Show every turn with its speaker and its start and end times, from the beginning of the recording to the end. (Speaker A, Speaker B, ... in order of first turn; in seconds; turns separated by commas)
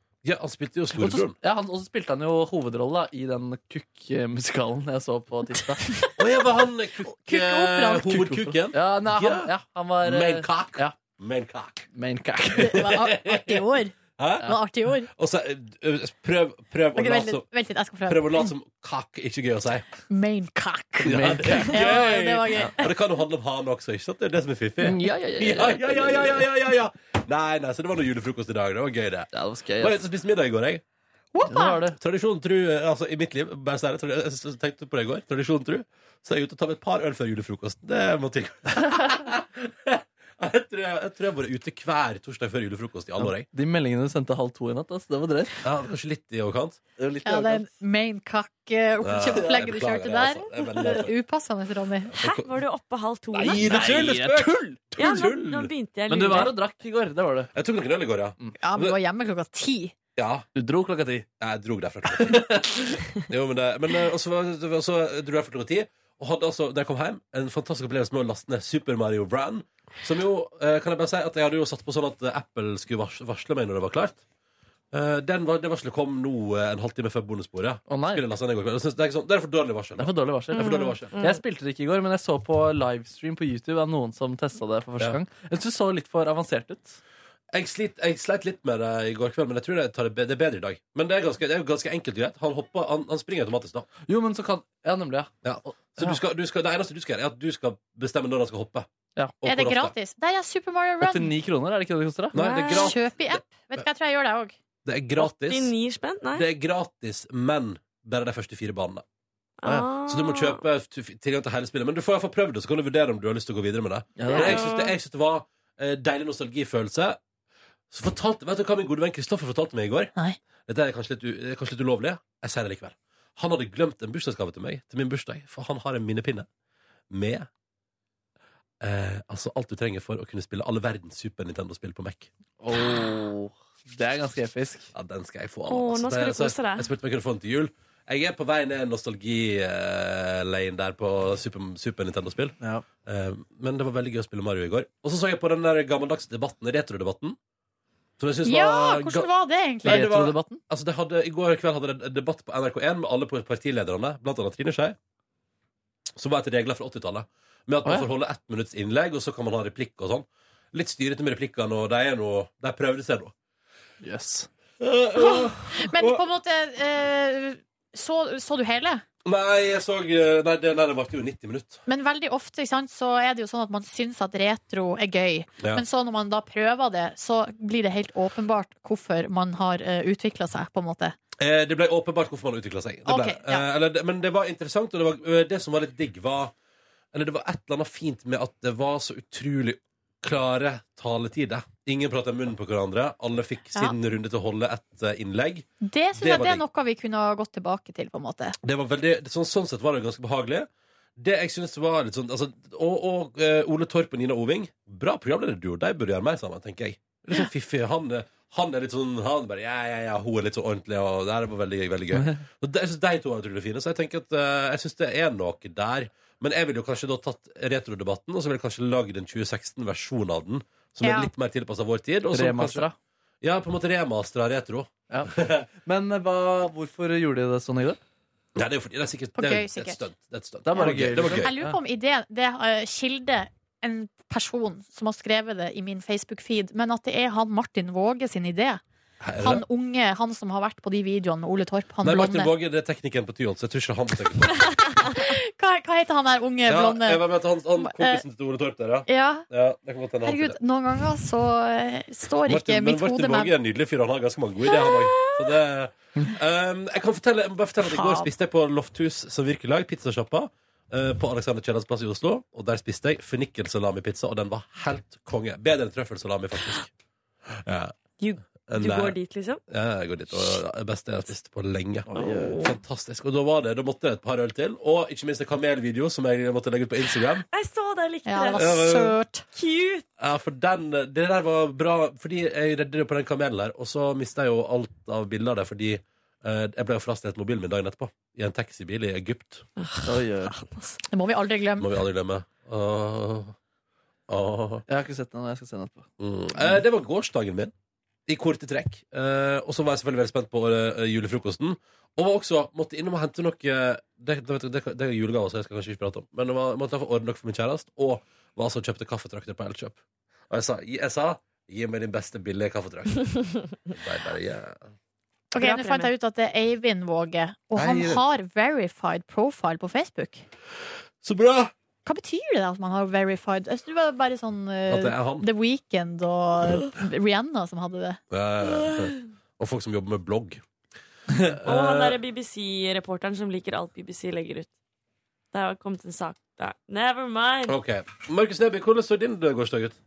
Speaker A: 0.2-1.3, Speaker B: 1.0-5.9, Speaker A: 6.2-9.5, Speaker C: 7.2-8.1, Speaker B: 8.1-10.9, Speaker A: 10.0-11.8, Speaker B: 11.9-12.9, Speaker C: 12.6-15.1, Speaker A: 12.6-14.5, Speaker A: 15.1-17.4, Speaker C: 16.9-18.5, Speaker A: 18.1-19.9, Speaker C: 20.1-22.9, Speaker A: 21.0-30.8, Speaker B: 21.1-21.8, Speaker B: 24.8-26.5, Speaker B: 29.3-30.0, Speaker C: 31.3-31.8, Speaker B: 31.5-32.0, Speaker A: 31.9-43.5, Speaker B: 43.2-45.6, Speaker A: 45.6-46.8, Speaker B: 47.0-47.7, Speaker C: 47.2-52.1, Speaker A: 49.0-51.1, Speaker A: 52.1-52.5, Speaker D: 52.1-53.8, Speaker B: 53.3-54.8, Speaker A: 53.4-55.7, Speaker D: 54.9-56.5, Speaker B: 56.1-57.5, Speaker A: 57.5-59.0, Speaker C: 58.6-59.9, Speaker A: 60.1-60.5, Speaker B: 60.5-61.2, Speaker A: 61.4-62.6, Speaker B: 62.1-62.9, Speaker A: 63.3-74.2, Speaker A: 74.9-81.1, Speaker B: 77.9-78.2, Speaker B: 80.0-87.0, Speaker D: 80.5-81.4, Speaker A: 87.5-93.9, Speaker B: 94.1-96.2, Speaker A: 95.4-98.9, Speaker A: 99.4-99.9, Speaker C: 99.4-101.3, Speaker B: 101.0-102.4, Speaker A: 102.3-103.4, Speaker D: 102.3-103.0, Speaker C: 102.7-104.5, Speaker A: 104.8-105.7, Speaker D: 105.2-106.5, Speaker A: 106.3-109.0, Speaker D: 109.6-110.6, Speaker A: 109.7-117.2, Speaker B: 114.2-114.6, Speaker D: 114.3-115.0, Speaker A: 117.9-120.1, Speaker A: 120.7-126.5, Speaker A: 127.1-127.5, Speaker A: 128.8-132.3, Speaker B: 132.6-134.9, Speaker A: 134.9-147.4, Speaker D: 135.7-136.9, Speaker A: 148.2-149.3, Speaker C: 148.4-150.0, Speaker A: 149.8-154.9, Speaker B: 149.8-150.6, Speaker A: 156.2-163.3, Speaker B: 164.0-164.5, Speaker A: 164.8-166.2, Speaker C: 165.2-169.0, Speaker A: 169.2-171.8, Speaker C: 171.9-181.2, Speaker A: 181.4-186.5, Speaker C: 183.1-183.7, Speaker A: 187.1-195.7, Speaker C: 195.8-198.6, Speaker A: 196.2-196.6, Speaker A: 198.6-222.8, Speaker B: 212.1-212.4, Speaker C: 221.0-221.3, Speaker B: 222.3-222.9, Speaker A: 223.4-225.7, Speaker B: 225.8-228.0, Speaker A: 228.6-231.5, Speaker C: 229.4-230.0, Speaker B: 230.7-231.8, Speaker C: 230.8-238.8, Speaker A: 239.2-239.6, Speaker C: 239.4-242.5, Speaker A: 242.0-245.1, Speaker C: 244.9-247.2, Speaker A: 246.7-250.6, Speaker C: 247.8-248.2, Speaker C: 249.1-249.4, Speaker C: 250.2-253.5, Speaker A: 252.4-266.9, Speaker C: 257.9-258.3, Speaker A: 267.5-267.9, Speaker D: 268.2-269.6, Speaker A: 268.7-269.1, Speaker A: 269.7-277.4, Speaker B: 272.1-272.5, Speaker D: 272.2-272.7, Speaker D: 277.5-278.9, Speaker C: 278.2-279.4, Speaker A: 278.6-279.2, Speaker D: 279.5-280.0, Speaker A: 280.2-289.6, Speaker D: 289.8-290.9, Speaker B: 290.0-290.5, Speaker C: 291.1-291.9, Speaker A: 291.8-293.6, Speaker A: 294.3-294.8, Speaker B: 294.9-296.1, Speaker A: 296.2-297.7, Speaker A: 298.3-310.0, Speaker A: 310.5-313.3, Speaker A: 313.9-314.8, Speaker C: 315.5-320.4, Speaker D: 315.6-316.1, Speaker A: 317.7-318.2, Speaker A: 321.2-321.7, Speaker C: 322.0-328.2, Speaker A: 324.9-325.4, Speaker A: 328.3-330.6, Speaker D: 328.8-329.1, Speaker A: 331.6-332.2, Speaker D: 331.6-334.7, Speaker D: 335.5-337.8, Speaker A: 337.7-340.0